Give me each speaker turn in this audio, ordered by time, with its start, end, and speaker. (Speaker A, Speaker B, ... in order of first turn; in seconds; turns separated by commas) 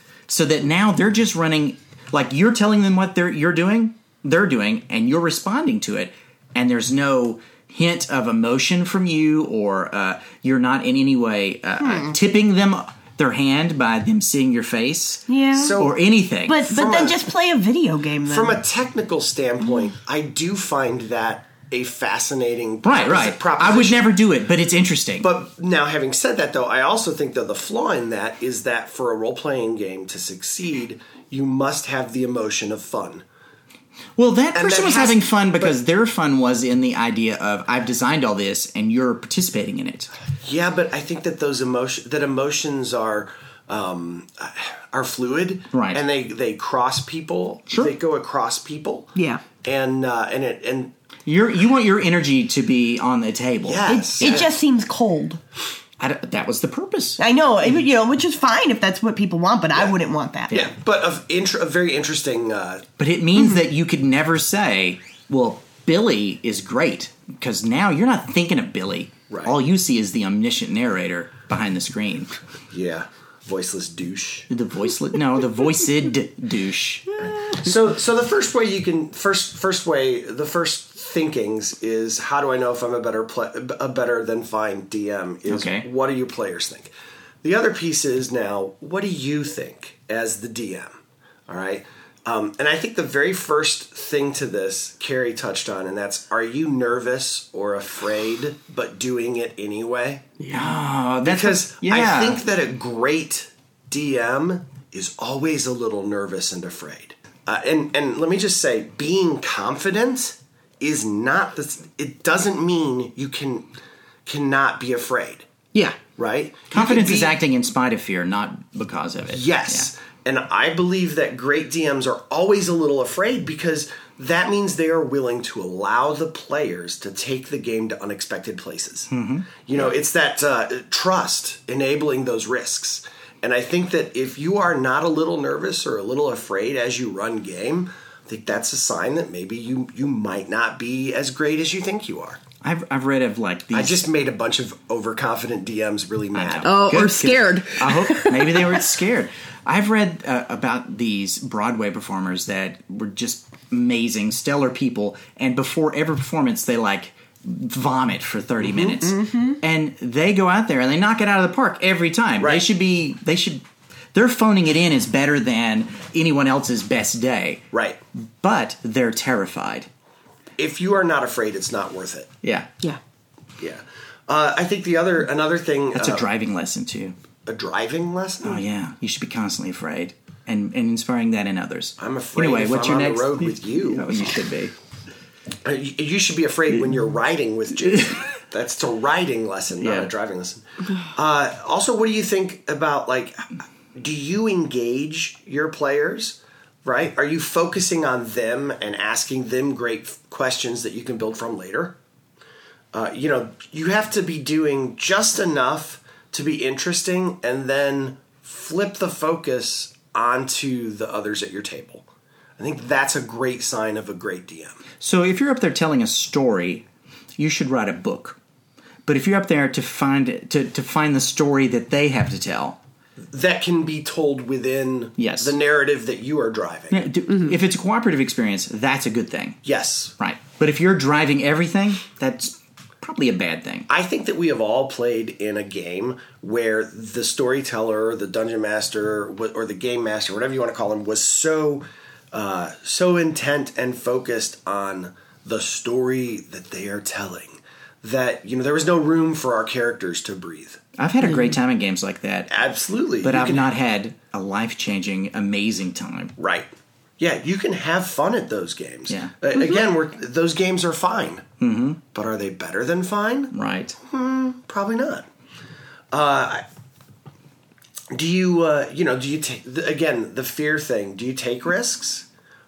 Speaker A: 0.3-16.6, Speaker B: 11.8-12.2, Speaker B: 15.3-15.8, Speaker C: 15.5-16.0, Speaker B: 16.4-18.6, Speaker C: 16.7-17.2, Speaker C: 18.3-24.1, Speaker A: 22.8-25.3, Speaker C: 25.2-33.2, Speaker A: 34.2-40.1, Speaker C: 34.5-35.7, Speaker C: 40.4-50.9, Speaker A: 45.7-46.0, Speaker B: 49.1-49.4, Speaker A: 51.2-54.5, Speaker C: 53.6-54.5, Speaker B: 53.9-55.4, Speaker A: 56.0-57.2, Speaker B: 57.2-60.7, Speaker C: 60.5-62.8, Speaker A: 63.0-72.3, Speaker C: 69.3-69.5, Speaker C: 72.7-74.5, Speaker A: 74.5-77.2, Speaker C: 77.2-86.9, Speaker A: 85.5-85.8, Speaker C: 87.4-90.9, Speaker C: 91.5-100.3, Speaker B: 100.4-100.7, Speaker A: 100.5-102.4, Speaker C: 101.2-113.7, Speaker C: 114.2-115.5, Speaker C: 116.2-117.3, Speaker A: 116.7-119.9, Speaker C: 119.3-129.1, Speaker A: 129.1-129.9, Speaker C: 129.6-142.4, Speaker A: 142.6-144.0, Speaker C: 143.7-147.1, Speaker A: 146.3-163.6, Speaker B: 146.6-148.7, Speaker C: 158.6-159.1, Speaker B: 159.2-159.5, Speaker C: 162.4-162.6, Speaker A: 164.1-169.9, Speaker C: 167.7-168.0, Speaker C: 170.6-172.3, Speaker A: 172.4-172.7, Speaker C: 173.6-176.2, Speaker A: 175.9-177.1, Speaker C: 177.4-178.6, Speaker A: 178.4-184.7, Speaker C: 182.0-184.2, Speaker C: 185.6-201.9, Speaker A: 187.9-188.2, Speaker A: 189.8-190.1, Speaker C: 202.9-212.0, Speaker C: 212.6-214.8, Speaker A: 215.0-216.8, Speaker A: 217.4-218.4, Speaker A: 219.1-222.8, Speaker C: 223.3-227.1, Speaker A: 225.2-225.5, Speaker A: 226.9-229.6, Speaker C: 229.6-230.1, Speaker A: 230.2-233.9, Speaker C: 233.9-250.8, Speaker A: 251.0-252.5, Speaker B: 251.3-251.5, Speaker C: 252.5-253.7, Speaker A: 253.2-256.3, Speaker C: 256.4-261.4, Speaker A: 261.6-262.0, Speaker C: 262.1-265.2, Speaker A: 263.5-263.9, Speaker C: 266.1-266.6, Speaker C: 268.1-272.2